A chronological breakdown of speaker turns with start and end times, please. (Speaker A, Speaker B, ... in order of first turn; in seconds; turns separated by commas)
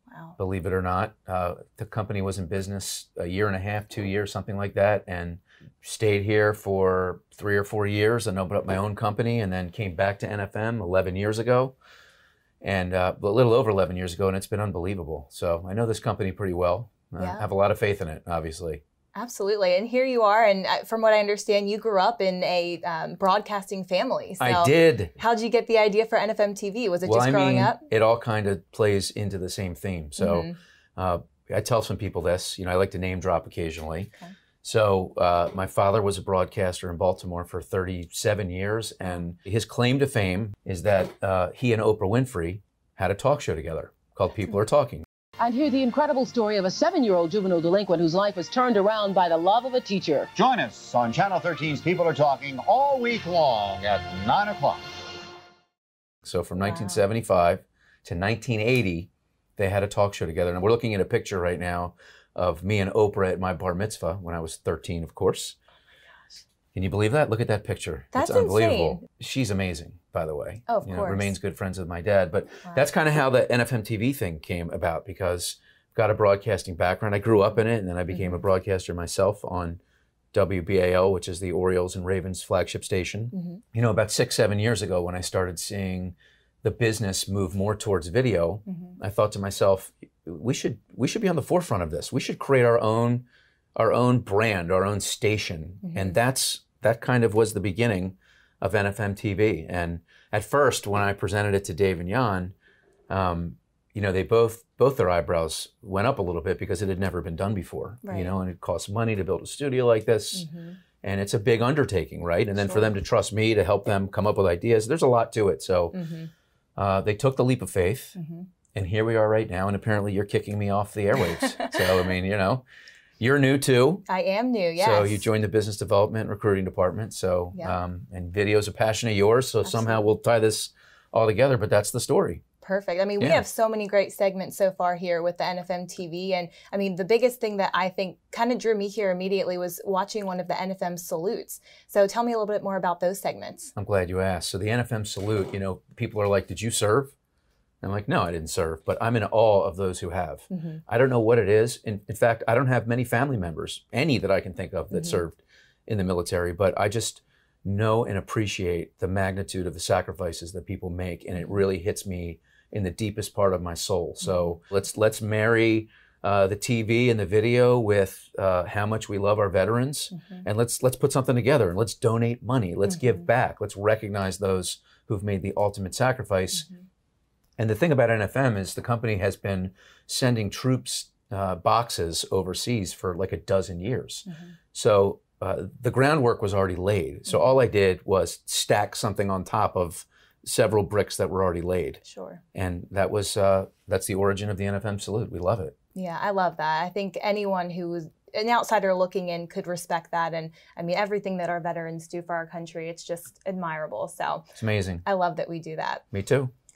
Speaker A: 0.4-11.7, Speaker A: 12.6-18.8, Speaker B: 17.2-17.4, Speaker B: 19.1-27.8, Speaker A: 24.4-25.1, Speaker A: 27.0-34.1, Speaker B: 30.2-30.6, Speaker A: 34.6-45.0, Speaker C: 45.4-50.3, Speaker D: 50.4-54.8, Speaker A: 56.2-65.5, Speaker B: 56.6-57.0, Speaker A: 66.7-79.8, Speaker B: 68.1-69.0, Speaker B: 70.7-71.3, Speaker A: 80.3-93.2, Speaker B: 83.3-83.6, Speaker A: 93.8-102.5, Speaker A: 103.1-110.5, Speaker B: 108.0-108.3, Speaker B: 110.3-110.8, Speaker A: 111.0-116.0, Speaker B: 112.6-112.9, Speaker B: 115.9-116.3, Speaker A: 116.8-118.1, Speaker B: 118.1-118.5, Speaker A: 118.7-122.6, Speaker A: 123.2-124.0, Speaker B: 124.1-125.2, Speaker A: 124.8-132.4, Speaker B: 129.6-130.1, Speaker B: 132.6-143.7, Speaker A: 143.8-147.1, Speaker A: 147.8-176.7, Speaker B: 150.5-150.8, Speaker A: 177.6-192.0, Speaker B: 184.3-184.5, Speaker B: 192.0-192.4, Speaker A: 192.5-195.7, Speaker B: 195.9-204.4, Speaker A: 204.6-205.0, Speaker B: 205.0-206.0, Speaker A: 206.1-206.5